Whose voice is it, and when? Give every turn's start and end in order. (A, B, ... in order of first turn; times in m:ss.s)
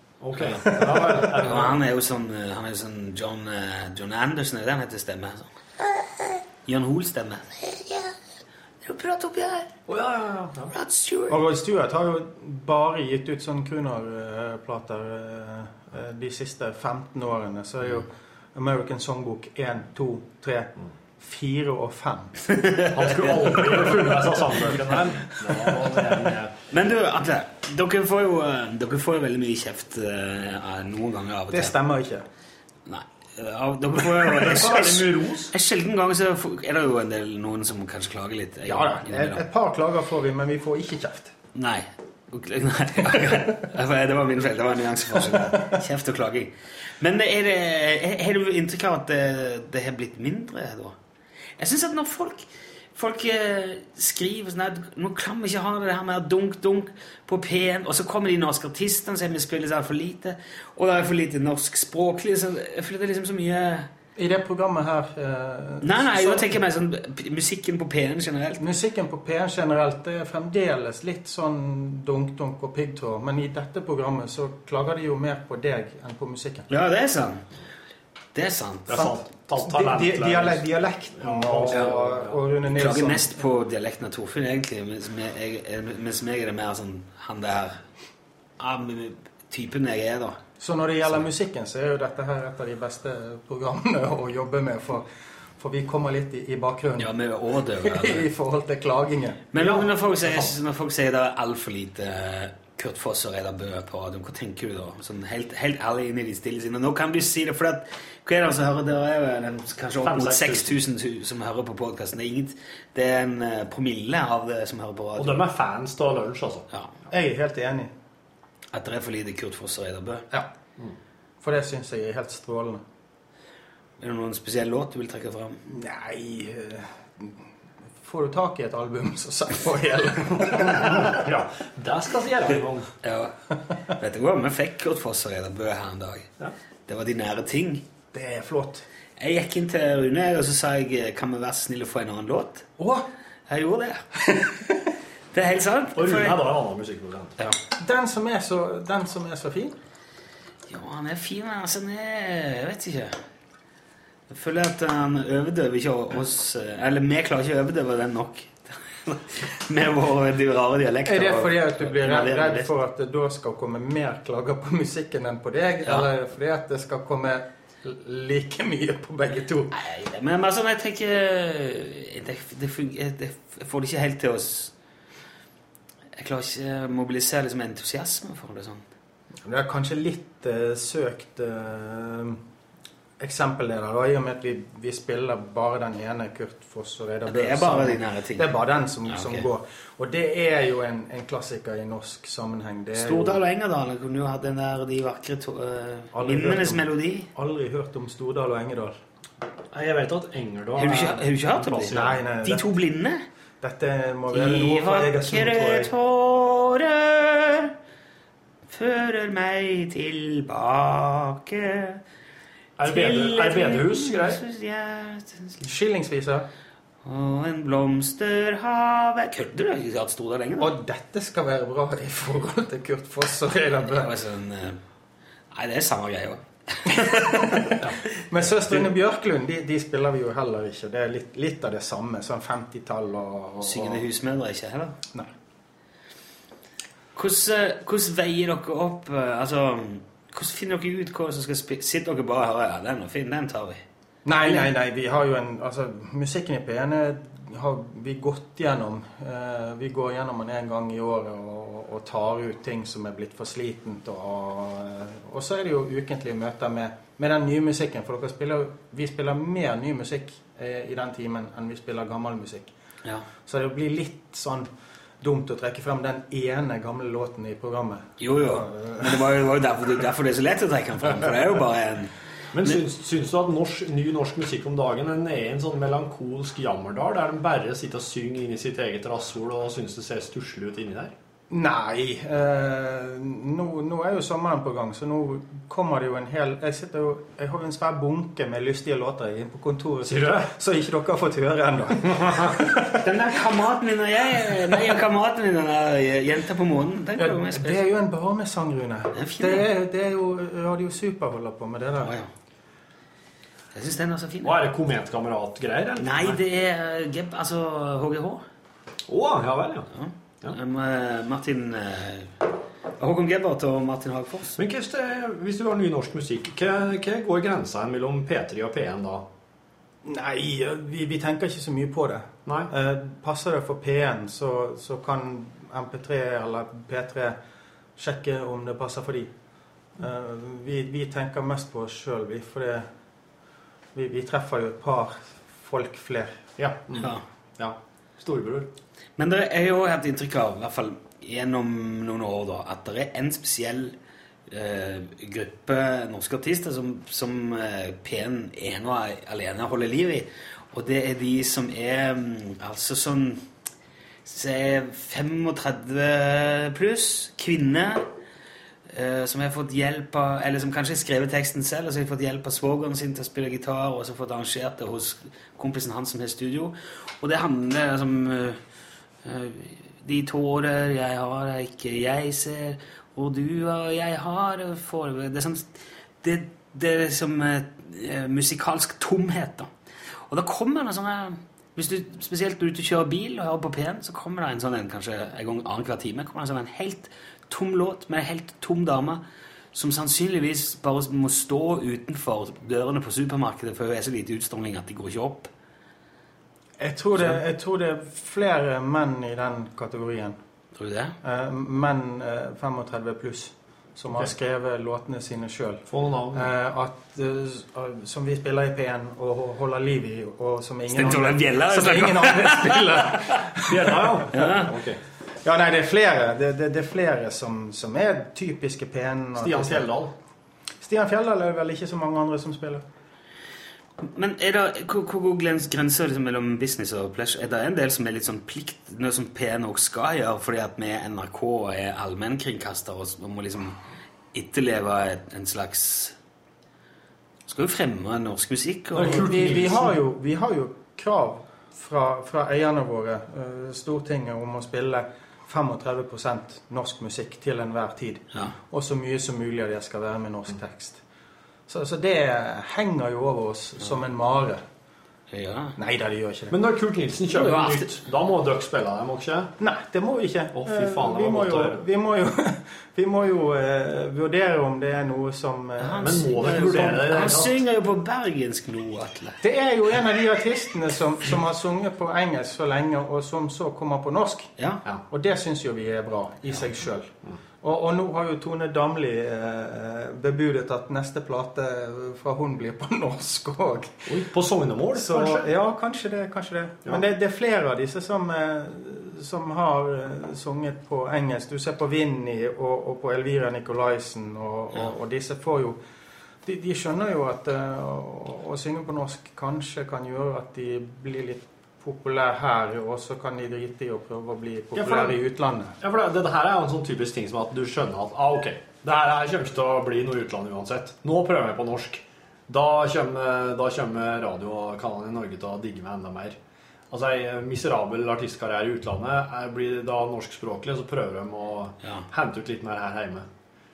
0:00.2-0:01.8 A
0:00.6-0:01.4 B
0:01.3-0:08.1 C
0:08.8-0:09.7 C
0:09.9-0:10.7 A
0:10.7-0:11.4 C
0:11.3-0:22.5 B
0:22.5-0:24.1 C
0:22.9-0:26.6 A
0:26.7-0:31.7 C
0:31.5-0:32.2 B
0:32.9-0:39.4 C
0:34.4-0:35.5 A
0:38.6-0:41.3 B
0:41.6-0:51.0 C
0:43.1-0:43.5 B
0:45.3-0:45.7 B
0:51.6-1:03.9 C
1:04.2-1:06.6 B
1:05.8-1:08.6 C
1:08.6-1:16.7 B
1:16.7-1:17.4 C
1:18.3-1:19.1 C
1:18.9-1:22.4 A
1:18.9-1:23.3 B
1:22.7-1:27.8 C
1:28.6-1:30.4 C
1:30.6-1:37.1 B
1:37.0-1:38.3 C
1:37.8-1:39.5 B
1:39.5-1:55.4 C
1:39.6-1:40.5 A
1:50.0-1:50.8 A
1:55.2-1:56.7 A
1:57.1-1:57.9 B
1:58.7-2:00.3 C
2:01.4-2:02.8 B
2:04.0-2:05.6 C
2:05.7-2:07.4 B
2:08.0-2:11.2 B
2:10.7-2:12.9 A
2:13.0-2:13.4 C
2:13.9-2:16.3 C
2:16.9-2:17.8 C
2:18.1-2:18.8 B
2:19.2-2:22.6 C
2:22.8-2:23.1 B
2:23.5-2:24.0 C
2:24.2-2:24.9 B
2:25.3-2:26.4 C
2:26.0-2:27.4 A
2:27.7-2:29.7 B
2:30.7-2:33.2 C
2:34.3-2:42.7 C
2:41.0-2:49.8 B
2:49.7-2:54.7 C
2:56.1-2:58.8 C
2:59.4-3:02.4 B
3:03.2-3:13.4 B
3:07.3-3:08.5 C
3:09.0-3:09.4 C
3:12.9-3:17.3 C
3:16.1-3:19.0 B
3:19.7-3:22.2 A
3:20.8-3:23.2 C
3:21.9-3:22.7 B
3:23.6-3:25.9 B
3:24.3-3:27.7 C
3:28.7-3:32.0 C
3:32.8-3:34.4 A
3:32.8-3:35.7 C
3:35.6-3:36.5 B
3:37.0-3:40.7 C
3:40.6-3:44.1 B
3:43.9-3:44.8 C
3:45.5-3:48.0 C
3:46.9-3:54.0 B
3:53.6-3:55.0 C
3:57.1-4:03.8 C
4:04.2-4:22.7 B
4:04.4-4:04.7 C
4:23.4-4:24.7 B
4:25.2-4:29.3 B
4:28.2-4:32.8 C
4:32.5-4:41.1 A
4:41.5-4:53.1 B
4:50.0-4:50.5 A
4:52.0-4:52.6 A
4:53.0-4:57.8 C
4:57.2-5:02.1 B
4:59.1-4:59.7 C
5:02.0-5:02.3 C
5:03.7-5:04.6 C
5:04.4-5:06.4 A
5:06.0-5:08.4 C
5:09.1-5:09.9 A
5:09.9-5:12.4 C
5:13.0-5:14.6 C
5:14.6-5:19.3 A
5:20.0-5:27.4 B
5:22.4-5:22.7 A
5:28.0-5:29.3 B
5:30.0-5:32.9 B
5:33.9-5:36.4 B
5:36.6-5:38.7 A
5:37.0-5:37.2 C
5:39.2-5:44.0 C
5:44.5-5:53.4 C
5:54.2-5:58.0 C
5:58.9-6:08.6 C
6:09.2-6:15.7 C
6:16.2-6:19.7 C
6:20.3-6:29.2 C
6:29.7-6:35.5 C
6:36.8-6:40.4 B
6:40.8-6:41.2 C
6:41.2-6:54.2 B
6:45.9-6:46.5 A
6:50.9-6:53.5 C
6:53.7-6:55.0 A
6:54.3-6:54.7 C
6:55.4-6:59.9 B
6:59.4-7:00.1 A
7:00.8-7:02.8 B
7:04.0-7:13.8 C
7:14.3-7:16.2 C
7:17.5-7:19.5 C
7:18.9-7:20.0 A
7:19.0-7:31.0 B
7:31.7-7:34.6 B
7:35.3-7:35.8 C
7:35.8-7:36.6 B
7:36.5-7:39.5 A
7:37.3-7:37.9 C
7:39.6-7:46.8 B
7:40.5-7:41.8 A
7:45.8-7:49.4 C
7:46.0-7:47.6 A
7:49.4-7:54.5 B
7:55.1-7:57.1 B
7:57.6-8:04.1 B
8:04.0-8:05.5 A
8:04.9-8:15.8 B
8:16.4-8:25.8 B
8:24.7-8:25.2 A
8:25.8-8:36.4 A
8:36.9-8:43.3 A